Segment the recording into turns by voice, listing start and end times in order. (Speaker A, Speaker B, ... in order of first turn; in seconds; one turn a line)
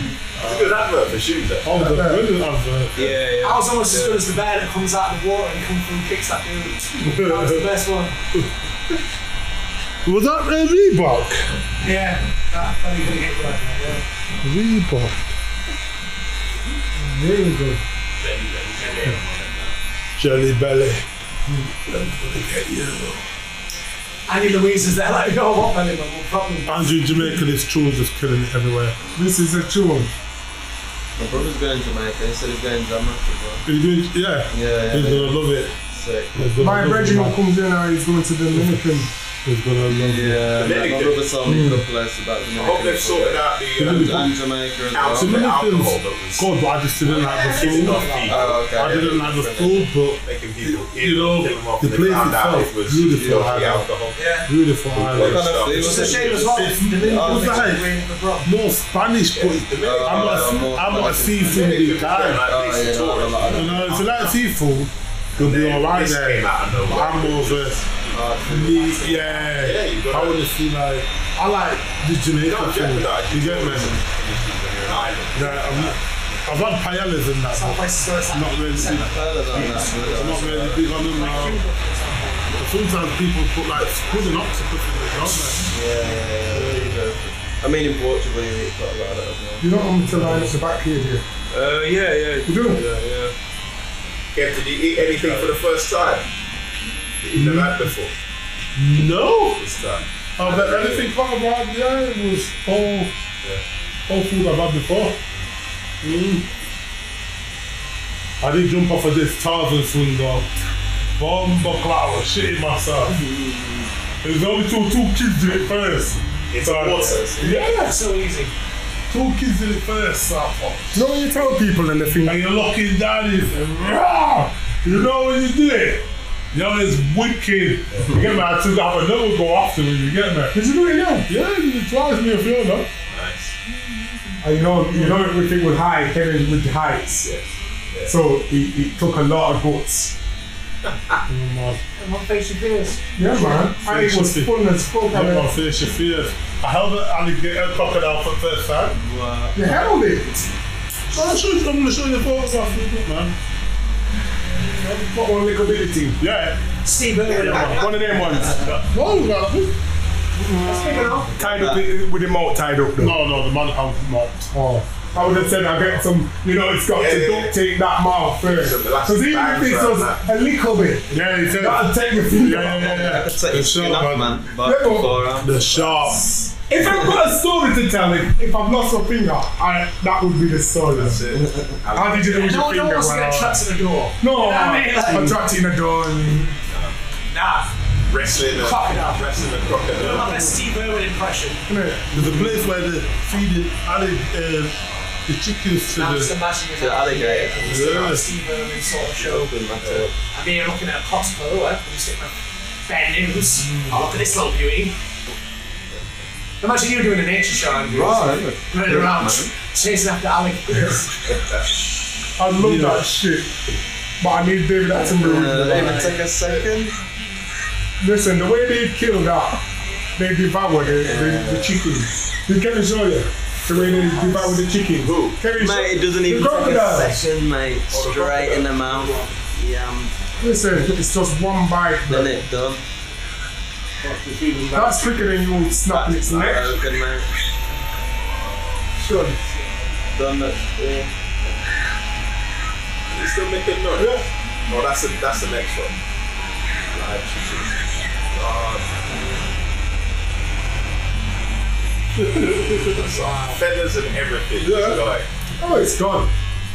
Speaker A: 0.4-1.7
Speaker B: 1.6-3.1
Speaker C: 1.7-2.2
Speaker D: 2.9-4.3
Speaker E: 3.4-8.2
Speaker B: 7.0-7.7
Speaker B: 10.1-11.5
Speaker E: 11.8-14.1
Speaker B: 14.4-15.3
Speaker C: 17.0-17.8
Speaker A: 18.1-19.8
Speaker B: 20.2-21.0
Speaker B: 21.9-23.2
Speaker E: 24.3-26.9
Speaker B: 26.7-29.0
Speaker C: 29.1-30.1
Speaker D: 31.2-33.6
Speaker B: 33.6-35.7
Speaker D: 34.5-36.3
Speaker B: 36.4-37.4
Speaker C: 36.6-39.1
Speaker B: 38.5-38.9
Speaker B: 39.4-40.5
Speaker D: 39.9-45.4
Speaker A: 40.5-41.3
Speaker C: 41.4-41.9
Speaker A: 42.5-44.2
Speaker B: 43.7-44.4
Speaker A: 44.9-46.5
Speaker B: 45.1-48.1
Speaker A: 47.1-49.2
Speaker E: 47.1-48.6
Speaker D: 48.2-49.9
Speaker B: 48.6-50.2
Speaker A: 50.2-54.4
Speaker B: 50.9-53.9
Speaker D: 53.1-53.9
Speaker E: 54.1-54.5
Speaker B: 54.4-57.9
Speaker A: 54.9-56.2
Speaker D: 55.0-57.7
Speaker E: 55.7-58.5
Speaker B: 58.4-62.5
Speaker A: 59.3-60.6
Speaker D: 59.8-61.7
Speaker A: 61.4-64.4
Speaker D: 62.4-64.0
Speaker B: 63.5-67.9
Speaker A: 65.3-68.4
Speaker D: 68.1-69.4
Speaker B: 68.5-74.0
Speaker E: 69.1-69.5
Speaker A: 69.6-70.4
Speaker A: 72.4-76.4
Speaker B: 75.3-81.6
Speaker E: 77.5-80.0
Speaker D: 78.8-81.0
Speaker E: 81.0-82.7
Speaker B: 82.6-85.6
Speaker E: 85.2-85.7
Speaker D: 85.7-90.7
Speaker B: 86.5-87.0
Speaker C: 89.6-91.3
Speaker D: 91.5-93.3
Speaker C: 92.5-92.8
Speaker A: 94.3-96.3
Speaker A: 97.2-98.2
Speaker B: 97.3-97.9
Speaker B: 98.8-99.6
Speaker A: 99.6-101.1
Speaker B: 100.4-103.1
Speaker B: 104.1-105.2
Speaker B: 106.0-106.5
Speaker B: 108.4-110.5
Speaker B: 111.2-113.2
Speaker D: 113.1-113.9
Speaker B: 114.2-117.9
Speaker A: 116.5-117.3
Speaker D: 116.9-117.5
Speaker E: 117.4-118.5
Speaker B: 119.1-121.2
Speaker C: 120.9-122.4
Speaker B: 122.2-130.6
Speaker C: 130.5-131.3
Speaker B: 131.3-132.9
Speaker A: 133.1-133.6
Speaker C: 134.4-137.4
Speaker B: 134.9-135.2
Speaker A: 137.3-138.1
Speaker C: 138.1-140.2
Speaker A: 140.8-141.2
Speaker B: 141.3-141.8
Speaker E: 142.0-143.0
Speaker C: 143.2-145.5
Speaker B: 143.5-144.5
Speaker B: 145.1-149.0
Speaker D: 148.9-150.2
Speaker C: 149.5-150.3
Speaker B: 151.1-153.4
Speaker C: 154.7-156.2
Speaker B: 156.2-156.6
Speaker E: 156.8-158.1
Speaker C: 157.5-158.9
Speaker D: 158.2-158.6
Speaker B: 158.9-159.8
Speaker C: 160.4-163.2
Speaker E: 160.6-161.3
Speaker D: 161.4-161.9
Speaker B: 163.0-164.5
Speaker C: 164.5-173.2
Speaker A: 165.2-166.1
Speaker A: 166.9-167.6
Speaker A: 168.4-170.3
Speaker B: 171.1-174.4
Speaker D: 172.8-176.3
Speaker C: 174.6-175.2
Speaker B: 175.4-176.3
Speaker C: 176.7-181.2
Speaker A: 180.9-182.5
Speaker C: 181.9-183.6
Speaker E: 182.2-185.4
Speaker C: 184.2-186.6
Speaker A: 186.7-187.0
Speaker E: 187.3-189.3
Speaker A: 188.0-190.4
Speaker E: 189.9-191.6
Speaker C: 191.7-192.6
Speaker B: 192.1-196.3
Speaker A: 194.9-195.2
Speaker E: 195.9-199.6
Speaker D: 196.8-197.8
Speaker B: 197.6-198.3
Speaker D: 199.0-200.2
Speaker A: 199.8-200.1
Speaker E: 200.3-205.0
Speaker E: 206.6-211.2
Speaker D: 207.8-209.5
Speaker C: 212.4-213.5
Speaker B: 212.6-213.1
Speaker C: 214.2-216.2
Speaker D: 214.9-217.0
Speaker C: 218.0-219.6
Speaker C: 220.2-227.2
Speaker D: 221.0-221.8
Speaker A: 223.7-224.2
Speaker A: 225.0-225.4
Speaker D: 225.5-230.1
Speaker A: 227.9-229.2
Speaker C: 230.4-232.5
Speaker D: 232.1-232.8
Speaker B: 234.0-235.4
Speaker C: 234.7-236.8
Speaker D: 235.9-237.3
Speaker B: 239.0-239.4
Speaker D: 240.1-241.1
Speaker A: 243.1-244.2
Speaker B: 244.0-244.3
Speaker A: 244.7-246.0
Speaker A: 246.9-247.8
Speaker A: 248.3-248.9
Speaker B: 252.2-253.0
Speaker A: 252.9-255.3
Speaker E: 253.1-253.6
Speaker B: 254.6-255.0
Speaker C: 255.6-256.3